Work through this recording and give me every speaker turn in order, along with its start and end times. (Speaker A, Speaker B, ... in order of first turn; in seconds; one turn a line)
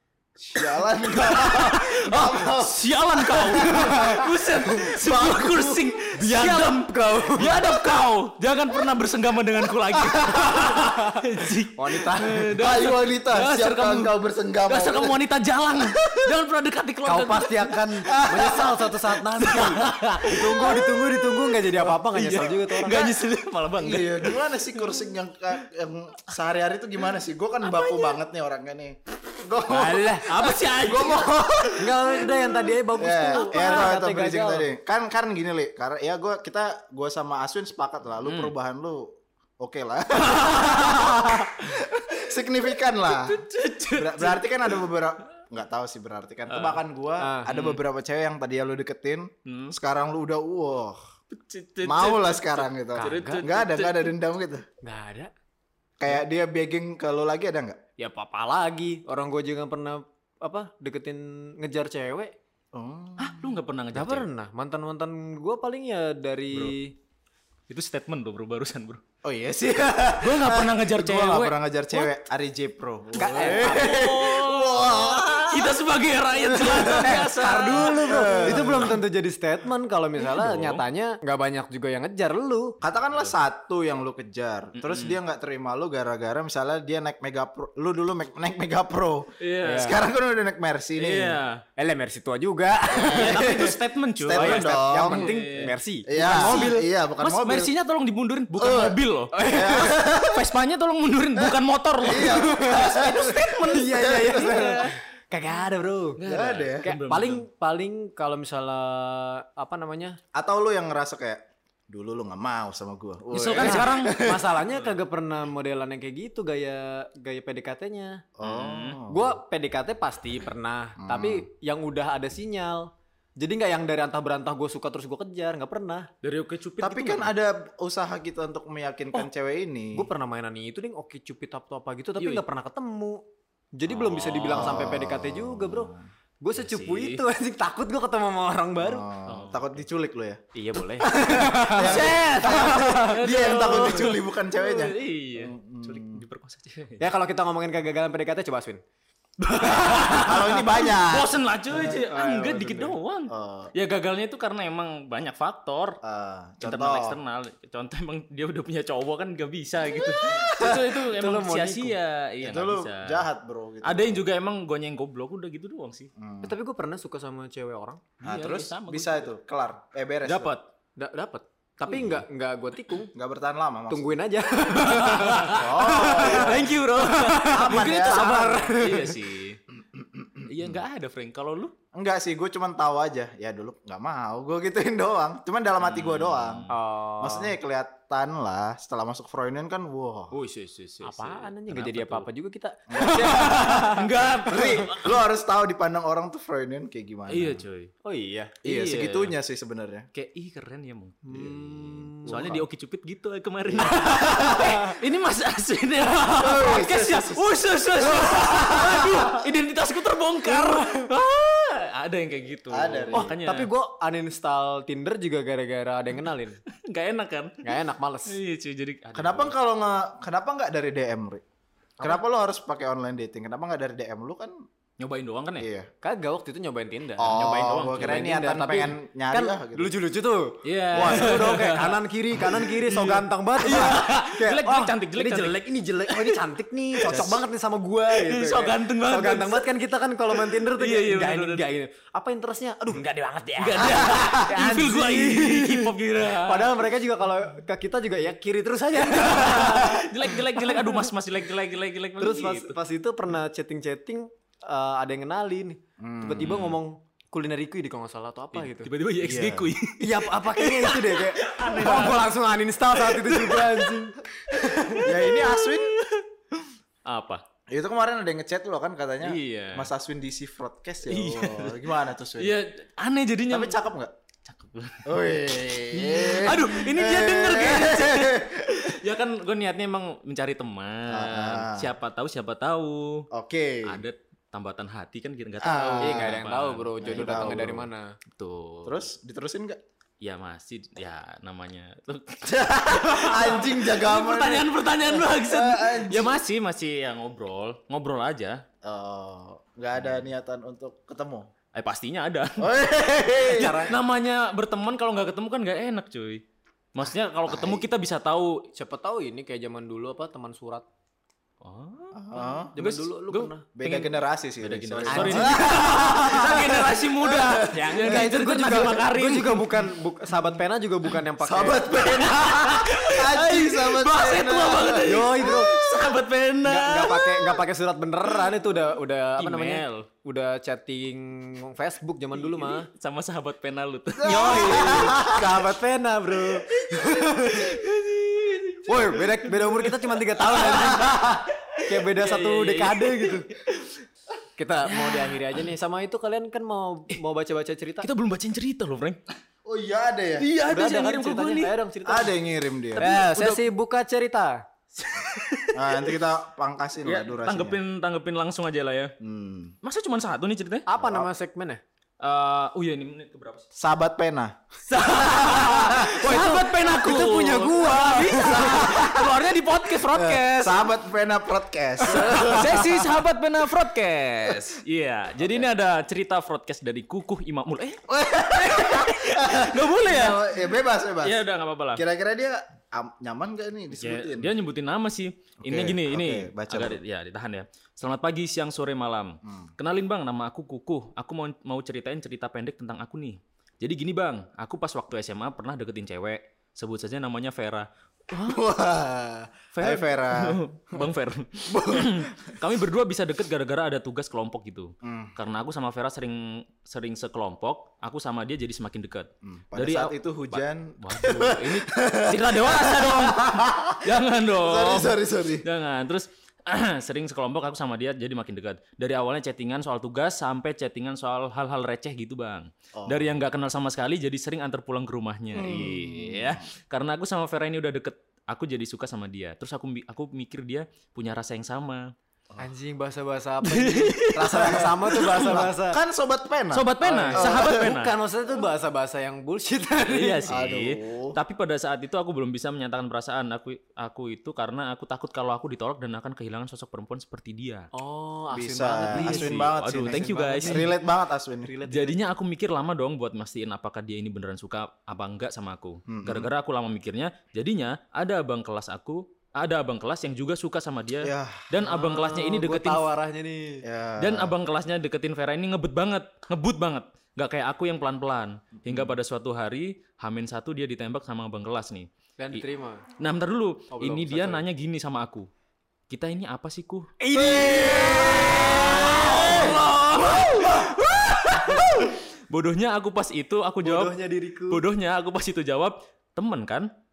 Speaker A: 0.4-6.0
Speaker B: 0.6-14.1
Speaker C: 3.7-4.2
Speaker C: 6.1-7.6
Speaker A: 10.0-10.8
Speaker C: 11.8-12.5
Speaker A: 12.5-15.2
Speaker B: 14.7-18.2
Speaker A: 15.8-16.3
Speaker C: 17.0-23.0
Speaker A: 18.1-19.0
Speaker B: 19.4-21.0
Speaker A: 20.6-20.9
Speaker B: 21.6-25.1
Speaker A: 22.4-23.2
Speaker A: 23.8-31.8
Speaker B: 27.7-28.1
Speaker C: 29.7-30.6
Speaker B: 29.8-32.6
Speaker C: 31.8-34.6
Speaker A: 33.0-51.0
Speaker B: 33.3-34.0
Speaker B: 38.2-38.5
Speaker B: 40.2-41.9
Speaker B: 43.0-44.8
Speaker B: 46.5-46.8
Speaker C: 47.2-47.5
Speaker B: 47.5-47.8
Speaker B: 49.5-49.8
Speaker B: 51.3-54.1
Speaker A: 51.8-54.6
Speaker C: 53.0-53.5
Speaker C: 54.8-55.3
Speaker A: 56.0-57.8
Speaker C: 58.0-62.3
Speaker A: 62.7-63.5
Speaker B: 63.2-64.3
Speaker C: 63.9-66.9
Speaker B: 66.5-66.8
Speaker B: 67.7-69.0
Speaker A: 69.2-75.8
Speaker B: 70.2-71.6
Speaker C: 73.2-74.1
Speaker B: 73.2-78.9
Speaker A: 76.4-79.0
Speaker C: 76.9-82.7
Speaker B: 80.2-80.8
Speaker A: 82.8-91.4
Speaker B: 84.8-85.2
Speaker B: 89.4-90.0
Speaker C: 89.6-90.0
Speaker B: 91.0-91.6
Speaker C: 91.8-93.6
Speaker A: 92.9-97.7
Speaker B: 93.0-105.0
Speaker C: 94.3-96.9
Speaker A: 98.6-100.5
Speaker C: 99.3-100.0
Speaker A: 101.4-104.9
Speaker C: 102.2-106.2
Speaker B: 106.2-107.4
Speaker A: 106.2-106.9
Speaker C: 106.8-110.2
Speaker A: 110.3-114.5
Speaker B: 113.3-114.9
Speaker C: 113.6-118.2
Speaker A: 118.4-119.3
Speaker B: 118.4-119.0
Speaker C: 119.1-126.1
Speaker A: 121.0-121.5
Speaker B: 126.2-127.3
Speaker A: 126.8-130.1
Speaker C: 129.9-133.2
Speaker B: 132.2-132.4
Speaker C: 133.8-139.1
Speaker B: 133.9-134.9
Speaker A: 134.5-136.0
Speaker B: 136.5-137.2
Speaker A: 138.8-140.4
Speaker B: 139.3-139.7
Speaker B: 140.6-147.1
Speaker C: 140.7-143.9
Speaker A: 141.0-146.2
Speaker C: 147.0-148.8
Speaker B: 149.4-156.0
Speaker A: 149.9-153.7
Speaker C: 152.1-152.8
Speaker A: 156.0-157.2
Speaker B: 156.6-163.2
Speaker A: 159.9-160.8
Speaker C: 160.2-161.9
Speaker A: 162.4-164.2
Speaker B: 163.8-166.1
Speaker A: 166.2-166.5
Speaker C: 166.4-168.0
Speaker B: 168.2-169.3
Speaker A: 168.2-170.5
Speaker B: 170.2-170.7
Speaker C: 171.0-173.1
Speaker B: 171.9-172.2
Speaker A: 173.1-174.2
Speaker C: 173.9-179.2
Speaker B: 174.8-179.6
Speaker A: 175.5-176.8
Speaker A: 177.5-178.5
Speaker A: 179.9-180.8
Speaker B: 180.4-181.7
Speaker A: 181.9-190.3
Speaker B: 185.8-186.7
Speaker C: 186.7-187.5
Speaker B: 190.3-192.3
Speaker C: 191.0-194.8
Speaker A: 192.9-193.8
Speaker B: 193.0-195.2
Speaker A: 194.4-197.6
Speaker B: 197.3-197.9
Speaker C: 198.0-198.5
Speaker A: 198.6-200.1
Speaker B: 198.6-199.3
Speaker B: 200.1-213.7
Speaker C: 201.2-202.6
Speaker A: 202.3-202.6
Speaker A: 203.7-204.8
Speaker C: 204.1-205.0
Speaker A: 206.3-207.4
Speaker A: 208.0-209.3
Speaker C: 208.3-209.0
Speaker C: 210.5-211.0
Speaker A: 212.7-213.3
Speaker C: 213.1-216.6
Speaker B: 216.7-217.7
Speaker C: 217.6-218.4
Speaker B: 218.3-219.5
Speaker A: 219.1-221.4
Speaker A: 222.0-224.6
Speaker B: 225.0-225.7
Speaker A: 225.6-225.9
Speaker C: 226.0-250.9
Speaker A: 227.2-229.9
Speaker B: 227.3-228.3
Speaker B: 230.6-236.4
Speaker A: 230.9-231.5
Speaker B: 237.0-237.4
Speaker A: 237.1-237.4
Speaker B: 238.1-239.7
Speaker B: 240.4-241.7
Speaker B: 243.6-246.8
Speaker A: 243.9-244.4
Speaker B: 249.0-252.8
Speaker C: 252.2-258.9
Speaker A: 256.0-256.6
Speaker B: 256.4-256.8
Speaker B: 258.5-262.3
Speaker A: 259.2-259.7
Speaker C: 260.0-265.1
Speaker B: 263.0-263.9
Speaker B: 264.8-266.2
Speaker A: 265.0-266.0
Speaker B: 267.1-267.4
Speaker A: 267.7-272.6
Speaker B: 269.2-269.9
Speaker B: 271.1-273.8
Speaker A: 273.5-274.1
Speaker B: 274.4-275.1
Speaker A: 275.0-279.0
Speaker B: 275.9-283.3
Speaker A: 281.1-281.9
Speaker A: 283.3-284.0
Speaker B: 283.9-287.8
Speaker A: 285.6-286.4
Speaker C: 286.0-288.1
Speaker A: 287.0-287.9
Speaker B: 288.4-289.1
Speaker A: 288.8-289.8
Speaker B: 290.2-298.6
Speaker A: 292.4-296.4
Speaker A: 298.8-301.5
Speaker B: 301.7-302.7
Speaker A: 302.6-303.9
Speaker C: 303.4-303.9
Speaker B: 303.5-306.4
Speaker B: 306.9-308.6
Speaker A: 307.1-307.9
Speaker C: 308.7-310.9
Speaker B: 311.6-319.8
Speaker A: 312.1-312.8
Speaker C: 312.3-313.6
Speaker A: 313.7-318.2
Speaker C: 315.1-316.8
Speaker C: 317.7-322.0
Speaker A: 321.4-325.8
Speaker B: 321.9-327.6
Speaker C: 325.0-325.7
Speaker C: 326.6-332.9
Speaker B: 329.4-330.1
Speaker B: 332.4-335.3
Speaker A: 334.2-335.6
Speaker C: 334.2-337.8
Speaker B: 336.8-341.0
Speaker C: 338.9-341.3
Speaker A: 340.7-341.4
Speaker B: 341.7-344.0
Speaker C: 341.9-343.5
Speaker C: 344.6-348.1
Speaker B: 344.8-345.6
Speaker B: 348.0-349.2
Speaker A: 349.6-350.5
Speaker B: 350.4-351.8
Speaker C: 350.7-352.3
Speaker A: 352.1-353.1
Speaker B: 352.9-353.7
Speaker C: 352.9-354.6
Speaker B: 355.0-356.2
Speaker A: 355.7-357.8
Speaker B: 357.0-359.1
Speaker A: 359.2-359.7
Speaker B: 359.8-360.9
Speaker C: 360.9-361.8
Speaker A: 361.0-361.3
Speaker B: 362.2-363.7
Speaker A: 363.8-364.6
Speaker B: 364.9-370.9
Speaker A: 365.4-365.9
Speaker C: 365.5-369.2
Speaker A: 368.8-369.3
Speaker A: 370.0-373.2
Speaker B: 372.0-382.0
Speaker A: 375.4-375.6
Speaker A: 378.1-381.4
Speaker A: 381.9-384.5
Speaker B: 384.0-398.6
Speaker A: 385.6-387.0
Speaker A: 389.4-389.7
Speaker A: 398.3-401.1
Speaker B: 399.7-432.1
Speaker A: 401.7-402.5
Speaker A: 405.0-405.3
Speaker A: 409.4-415.6
Speaker A: 423.0-423.3
Speaker A: 425.5-426.6
Speaker C: 432.6-436.0
Speaker B: 433.6-435.6
Speaker A: 434.5-437.9
Speaker B: 436.7-438.1
Speaker C: 437.0-440.5
Speaker B: 440.0-447.9
Speaker A: 440.5-441.4
Speaker C: 447.9-450.9
Speaker A: 448.5-451.7
Speaker B: 449.1-450.9
Speaker C: 451.6-452.2
Speaker B: 451.9-463.1
Speaker A: 456.1-456.5
Speaker A: 461.2-461.7
Speaker C: 461.8-463.8
Speaker A: 463.8-464.5
Speaker B: 464.2-472.6
Speaker C: 472.4-473.0
Speaker B: 473.2-475.5
Speaker C: 473.9-474.6
Speaker B: 476.1-477.1
Speaker C: 477.2-480.9
Speaker A: 477.4-478.4
Speaker B: 477.8-484.1
Speaker A: 479.3-479.7
Speaker C: 481.6-482.1
Speaker C: 483.8-484.8
Speaker B: 484.7-486.9